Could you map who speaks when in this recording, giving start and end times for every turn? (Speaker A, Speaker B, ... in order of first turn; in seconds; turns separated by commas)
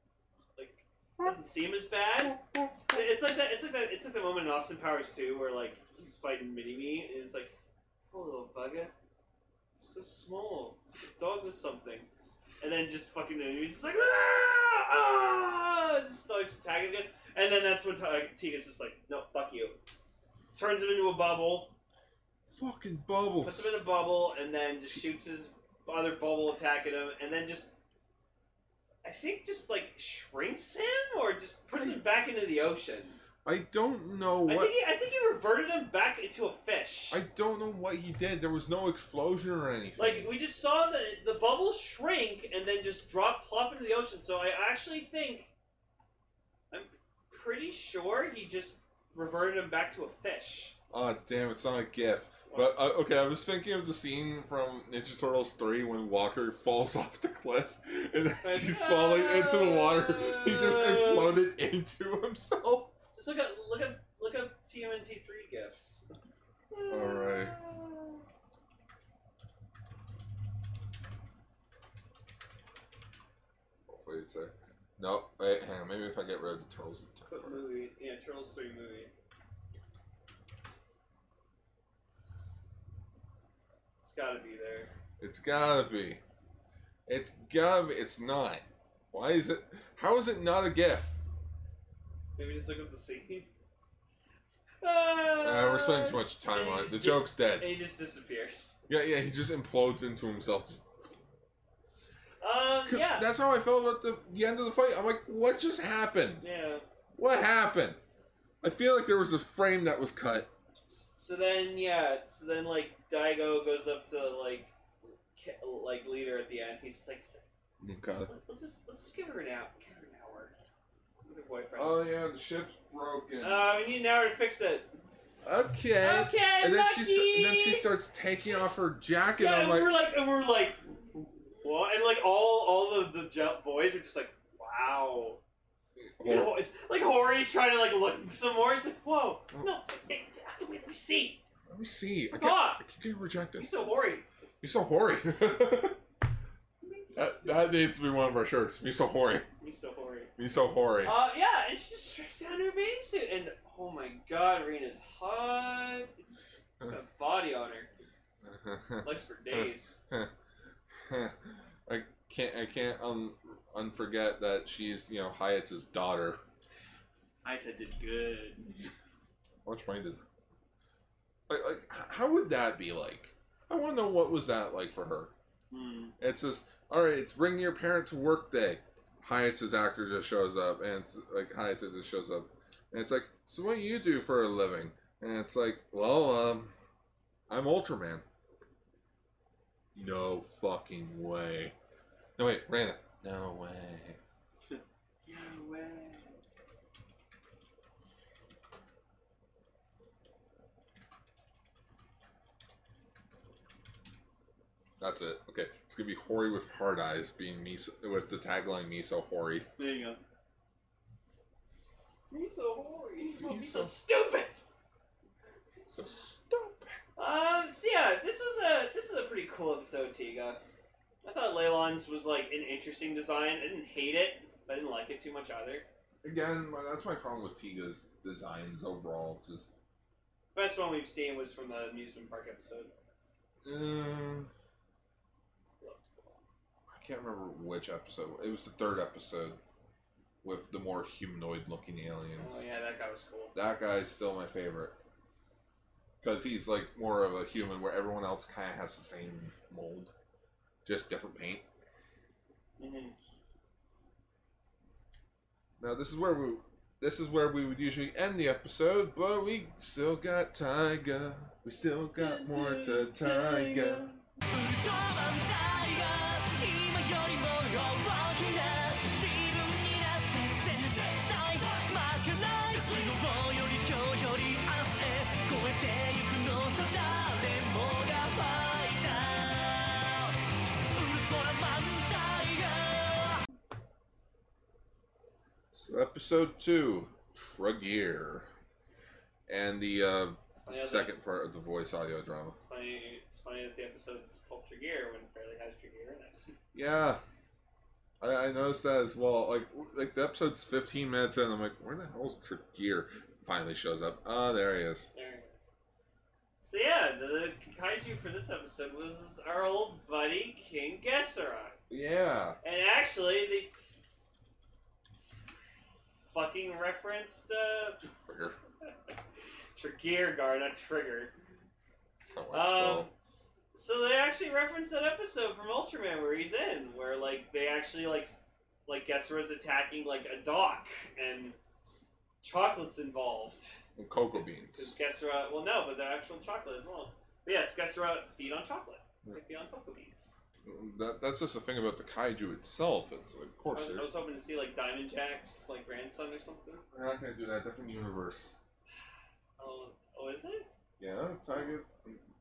Speaker A: 0.6-7.5, Speaker B: 2.3-3.0, Speaker A: 8.1-8.9, Speaker A: 9.8-12.1, Speaker A: 12.6-19.8, Speaker A: 20.5-21.7, Speaker B: 22.5-23.8, Speaker A: 23.4-27.7, Speaker A: 29.0-33.2, Speaker B: 33.4-34.7, Speaker A: 34.5-37.2, Speaker B: 37.1-40.3, Speaker A: 40.0-45.5, Speaker A: 46.7-50.7, Speaker B: 50.9-63.0, Speaker A: 58.4-61.4, Speaker A: 63.1-66.1, Speaker A: 66.7-68.2, Speaker B: 66.9-67.5, Speaker B: 73.9-77.6, Speaker A: 77.3-79.1, Speaker A: 84.0-84.9, Speaker B: 85.2-86.2, Speaker B: 87.1-91.2, Speaker A: 92.3-93.5, Speaker A: 94.8-98.8, Speaker B: 95.4-97.7, Speaker B: 98.9-100.8, Speaker A: 102.4-103.3, Speaker B: 102.8-106.5, Speaker A: 106.4-106.8, Speaker B: 107.2-108.0, Speaker B: 108.6-110.5, Speaker A: 110.9-114.7, Speaker A: 115.3-117.4, Speaker B: 117.8-118.3, Speaker A: 118.1-120.5, Speaker A: 121.2-122.0, Speaker B: 121.8-123.7, Speaker A: 123.4-124.9, Speaker B: 125.4-129.9, Speaker A: 126.0-128.8, Speaker A: 129.3-130.8, Speaker A: 131.5-135.4, Speaker B: 136.0-136.6, Speaker A: 136.2-141.4, Speaker B: 141.7-143.7, Speaker A: 142.3-142.8, Speaker A: 143.6-144.2, Speaker B: 144.6-146.0, Speaker A: 146.8-147.8, Speaker B: 147.1-149.5, Speaker A: 149.6-150.3, Speaker B: 150.4-151.1, Speaker A: 151.0-156.2, Speaker A: 156.8-157.9, Speaker B: 158.4-160.3, Speaker A: 159.0-160.0, Speaker B: 160.9-166.4, Speaker A: 167.4-168.8, Speaker B: 169.6-170.2, Speaker B: 171.5-175.3, Speaker A: 175.7-176.1, Speaker B: 176.2-186.7, Speaker B: 187.5-188.2, Speaker B: 189.9-191.7, Speaker B: 192.4-194.2, Speaker A: 194.7-196.4, Speaker B: 205.0-209.7, Speaker A: 209.8-210.2, Speaker A: 212.3-214.6, Speaker B: 213.4-213.9, Speaker B: 215.9-217.0, Speaker A: 217.2-220.6, Speaker A: 221.2-225.8, Speaker B: 226.2-229.7, Speaker A: 230.5-232.9, Speaker B: 233.6-234.5, Speaker A: 235.8-236.4, Speaker B: 236.9-239.6, Speaker B: 240.4-242.6, Speaker A: 242.4-243.5, Speaker B: 243.5-244.9, Speaker B: 246.2-250.1, Speaker B: 250.8-251.6, Speaker A: 252.8-253.1, Speaker B: 255.8-264.1, Speaker A: 262.1-264.2, Speaker C: 264.5-280.4, Speaker C: 280.9-283.4, Speaker B: 285.7-288.5, Speaker B: 289.5-292.6, Speaker A: 290.6-291.3, Speaker A: 292.6-296.5, Speaker B: 296.7-297.2, Speaker B: 298.2-305.1, Speaker A: 305.1-305.7, Speaker A: 306.6-311.8, Speaker B: 311.9-312.6, Speaker A: 312.6-313.7, Speaker A: 316.3-318.0, Speaker B: 318.0-318.6, Speaker A: 319.6-321.3, Speaker B: 322.2-323.1, Speaker A: 322.5-323.1, Speaker A: 323.7-328.3, Speaker A: 328.9-331.6, Speaker A: 332.4-333.8, Speaker B: 333.9-334.9, Speaker A: 334.7-340.4, Speaker B: 340.6-344.1, Speaker A: 343.7-346.8, Speaker B: 346.9-348.6, Speaker A: 349.6-350.7, Speaker B: 351.0-352.2